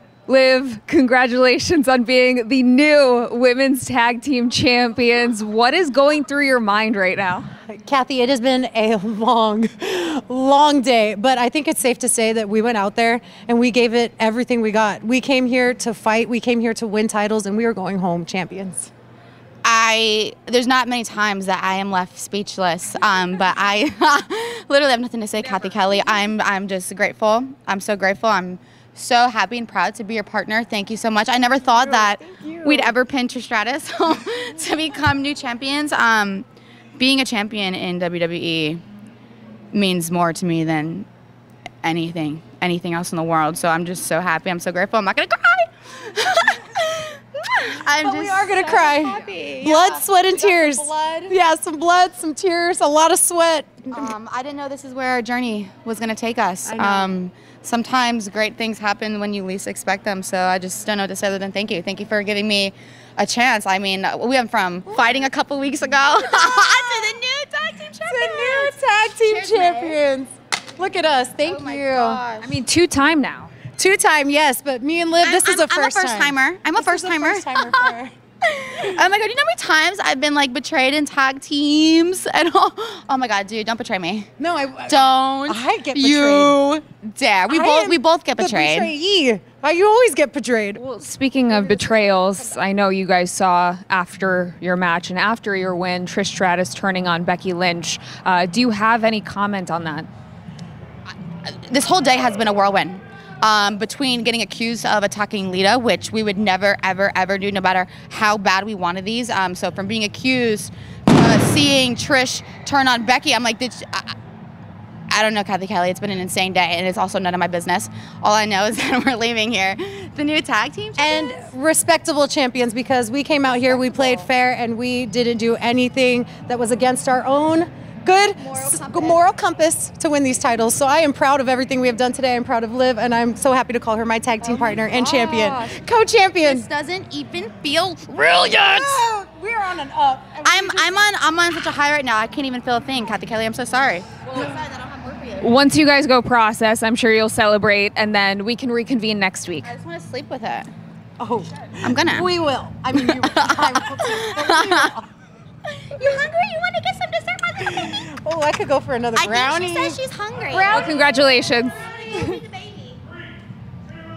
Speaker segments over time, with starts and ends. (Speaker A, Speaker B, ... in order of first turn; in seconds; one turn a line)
Speaker A: 0.3-7.5
Speaker B: 7.7-18.9
Speaker C: 19.6-38.8
Speaker A: 25.4-26.2
Speaker B: 31.7-33.0
Speaker C: 39.7-41.1
Speaker C: 41.8-51.3
Speaker B: 47.9-54.1
Speaker C: 53.9-70.0
Speaker B: 56.6-57.1
Speaker B: 66.4-67.2
Speaker B: 68.0-72.2
Speaker C: 71.4-72.6
Speaker A: 72.4-73.5
Speaker B: 73.8-78.1
Speaker C: 75.2-84.3
Speaker B: 84.4-86.6
Speaker C: 84.9-88.9
Speaker B: 87.5-90.8
Speaker A: 90.8-100.1
Speaker B: 91.8-92.2
Speaker C: 101.5-114.2
Speaker C: 115.1-121.4
Speaker B: 121.0-136.7
Speaker C: 123.5-124.3
Speaker C: 128.4-129.2
Speaker C: 134.4-135.8
Speaker C: 136.4-139.1
Speaker B: 138.4-141.1
Speaker C: 140.4-145.5
Speaker A: 145.4-149.7
Speaker C: 149.6-150.7
Speaker B: 151.2-155.1
Speaker C: 151.8-152.3
Speaker C: 153.0-154.9
Speaker C: 155.7-158.0
Speaker B: 157.7-160.0
Speaker C: 159.2-163.0
Speaker B: 160.5-160.8
Speaker A: 160.7-162.4